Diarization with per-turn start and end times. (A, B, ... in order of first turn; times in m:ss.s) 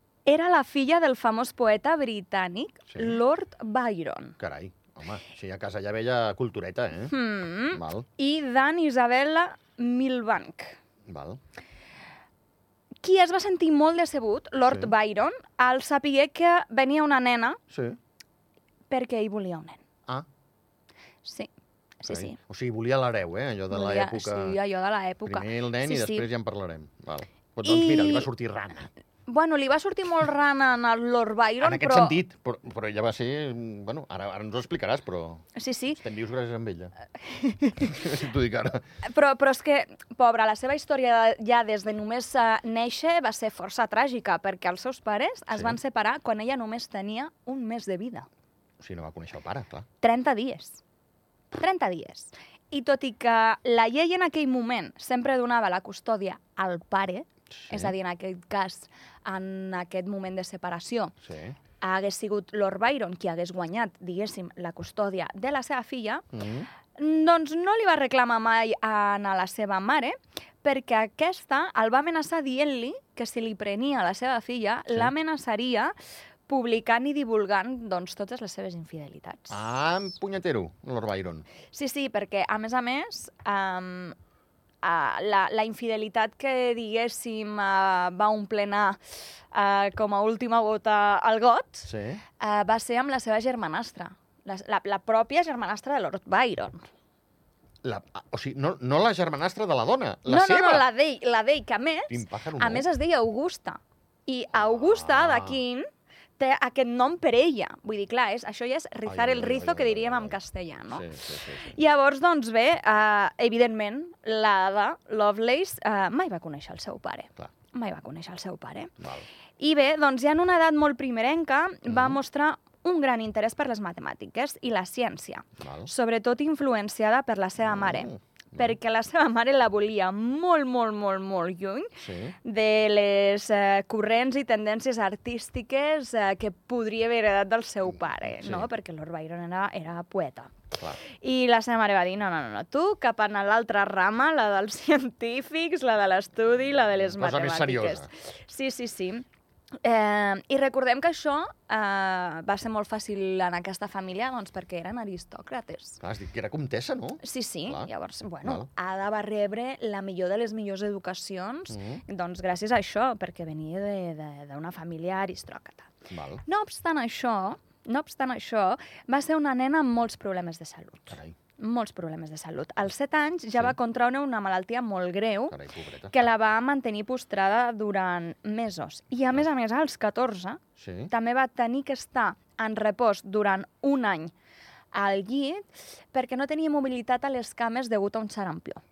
0:00.2-0:04.4 A
0:02.9-0:03.2 B
0:04.4-0:07.1 B
0:07.1-0:10.8 A
0:07.7-0:08.0 B
0:11.1-0:11.4 B
0:13.0-0:17.6 A
0:14.6-0:14.9 B
0:17.7-0:18.0 B
0:18.9-0:19.8 A
0:21.2-0:21.5 A
0:22.0-0:22.4 A
0:22.1-0:24.6 B
0:23.7-0:26.3 A
0:25.2-0:28.9 B
0:27.6-0:28.3 A
0:29.3-0:32.2 A
0:31.6-0:35.4 B
0:35.5-0:36.0 A
0:36.0-0:36.9 B
0:37.2-0:38.0 A
0:37.8-0:38.8 B
0:39.0-0:48.2 A
0:45.5-0:45.8 B
0:48.8-0:49.8 B
0:50.0-0:50.8 A
0:51.5-1:01.1 A
0:57.6-0:57.9 B
1:01.2-1:01.6 B
1:01.8-1:06.3 A
1:06.3-1:06.7 B
1:06.9-1:15.9 A
1:16.5-1:19.6 A
1:19.5-1:21.4 B
1:21.7-1:24.1 A
1:24.8-1:29.0 A
1:29.5-1:36.8 A
1:31.9-1:32.2 B
1:37.8-1:40.8 B
1:40.2-1:45.9 A
1:42.1-1:42.8 B
1:44.5-1:45.6 B
1:46.4-1:58.9 A
1:49.0-1:50.4 B
1:50.9-1:51.8 B
1:59.0-1:59.2 B
1:59.6-2:29.2 A
2:01.9-2:02.2 B
2:05.6-2:05.9 B
2:07.6-2:08.8 B
2:12.0-2:12.4 B
2:18.2-2:18.7 B
2:27.1-2:28.1 B
2:29.8-2:36.0 A
2:36.0-2:37.9 B
2:37.2-2:45.9 A
2:38.4-2:38.7 B
2:41.7-2:42.0 B
2:46.1-2:46.4 B
2:46.4-2:55.6 A
2:55.5-2:56.1 B
2:56.1-3:04.3 A
3:00.8-3:01.1 B
3:04.9-3:08.8 A